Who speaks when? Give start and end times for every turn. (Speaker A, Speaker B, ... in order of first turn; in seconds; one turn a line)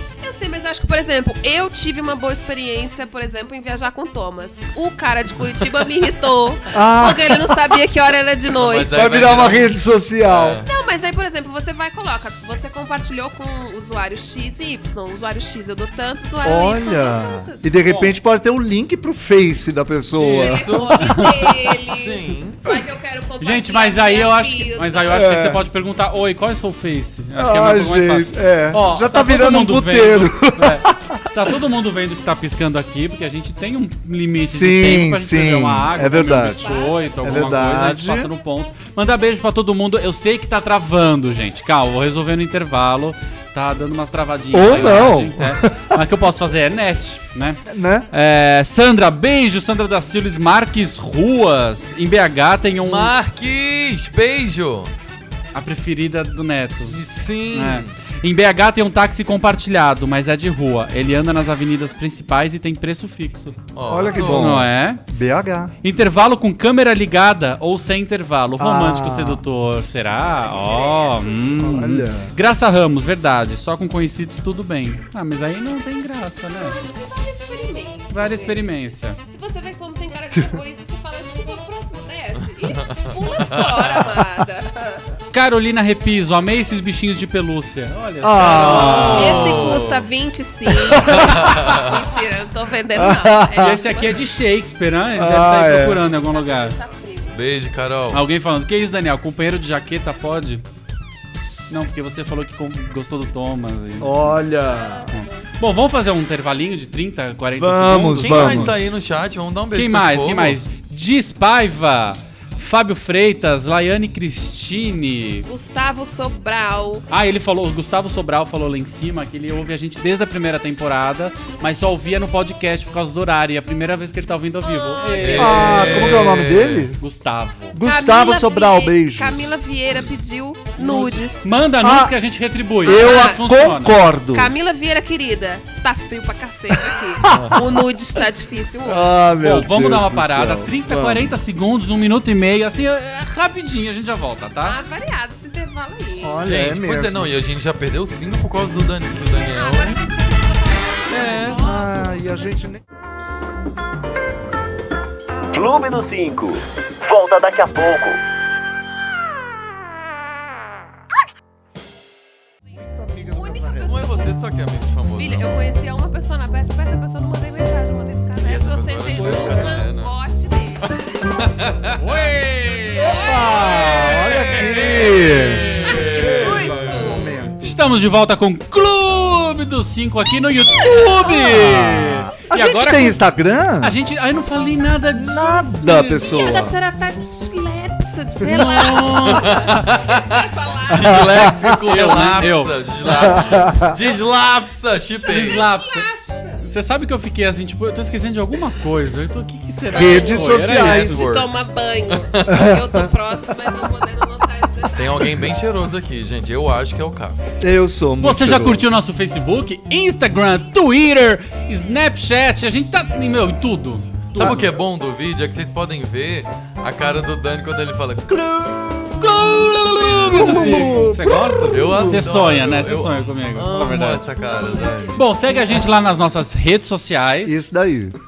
Speaker A: 0.2-9.1
Speaker B: 6.7-7.5
Speaker C: 8.5-10.7
Speaker B: 8.9-10.6
Speaker A: 10.6-17.7
Speaker B: 16.4-20.8
Speaker D: 17.8-18.1
Speaker C: 20.2-22.6
Speaker A: 20.3-25.2
Speaker D: 21.0-21.4
Speaker D: 23.4-53.1
Speaker B: 25.1-25.6
Speaker B: 27.4-31.3
Speaker B: 34.4-36.7
Speaker A: 36.1-37.6
Speaker B: 37.2-38.3
Speaker B: 44.5-46.0
Speaker B: 47.6-48.1
Speaker C: 52.8-54.9
Speaker D: 55.5-57.0
Speaker C: 56.9-57.9
Speaker D: 57.5-63.6
Speaker C: 63.7-64.6
Speaker B: 63.9-65.7
Speaker D: 64.1-65.0
Speaker D: 65.8-76.8
Speaker B: 68.6-69.4
Speaker A: 70.4-71.7
Speaker B: 71.6-72.3
Speaker A: 76.6-78.7
Speaker D: 78.1-79.2
Speaker A: 79.2-85.0
Speaker C: 82.6-84.2
Speaker D: 85.3-89.7
Speaker B: 88.2-89.6
Speaker C: 88.4-90.1
Speaker A: 89.1-94.2
Speaker B: 90.8-91.6
Speaker C: 90.9-92.1
Speaker B: 92.9-93.8
Speaker D: 93.5-96.8
Speaker B: 95.2-96.0
Speaker A: 96.1-97.3
Speaker C: 97.3-98.2
Speaker D: 98.1-100.6
Speaker D: 101.7-104.3
Speaker B: 104.0-105.1
Speaker A: 104.6-105.4
Speaker D: 105.1-108.9
Speaker B: 107.5-108.9
Speaker C: 108.2-110.6
Speaker D: 109.7-115.5
Speaker A: 115.5-117.1
Speaker D: 117.1-126.3
Speaker A: 124.6-126.0
Speaker C: 125.2-126.9
Speaker B: 125.2-127.0
Speaker D: 127.0-127.8
Speaker B: 127.7-129.6
Speaker A: 127.8-131.4
Speaker D: 130.8-134.0
Speaker B: 131.8-132.1
Speaker B: 132.8-134.5
Speaker A: 132.9-133.6
Speaker A: 134.3-139.1
Speaker B: 136.7-137.8
Speaker B: 138.8-141.2
Speaker D: 139.3-144.8
Speaker A: 144.6-146.4
Speaker B: 146.2-147.3
Speaker C: 146.4-150.0
Speaker A: 149.5-152.1
Speaker C: 151.1-151.7
Speaker B: 151.5-152.8
Speaker E: 155.5-158.2
Speaker B: 162.7-164.1
Speaker A: 163.3-164.2
Speaker C: 163.8-165.7
Speaker A: 165.1-171.4
Speaker C: 168.4-170.1
Speaker B: 169.2-169.7
Speaker C: 171.3-171.9
Speaker D: 172.0-173.6
Speaker A: 172.6-174.0
Speaker B: 173.0-177.8
Speaker C: 173.8-177.5
Speaker A: 175.9-177.3
Speaker D: 177.6-183.2
Speaker A: 180.5-181.7
Speaker B: 181.4-183.9
Speaker D: 183.8-186.3
Speaker B: 185.1-186.8
Speaker A: 186.2-191.4
Speaker D: 188.4-189.9
Speaker C: 189.1-195.7
Speaker B: 191.0-191.8
Speaker D: 191.7-192.7
Speaker B: 193.1-194.0
Speaker D: 195.2-196.1
Speaker A: 195.4-196.6
Speaker D: 196.6-201.2
Speaker A: 199.9-200.5
Speaker B: 199.9-201.4
Speaker C: 200.4-201.5
Speaker A: 201.1-205.5
Speaker C: 202.1-203.0
Speaker B: 202.5-202.9
Speaker C: 204.9-207.4
Speaker B: 207.6-208.9
Speaker D: 208.2-214.8
Speaker C: 214.3-221.1
Speaker B: 214.3-214.7
Speaker B: 218.3-222.3
Speaker D: 219.2-224.3
Speaker C: 221.6-225.2
Speaker A: 224.3-225.9
Speaker D: 225.1-227.7
Speaker B: 227.4-228.1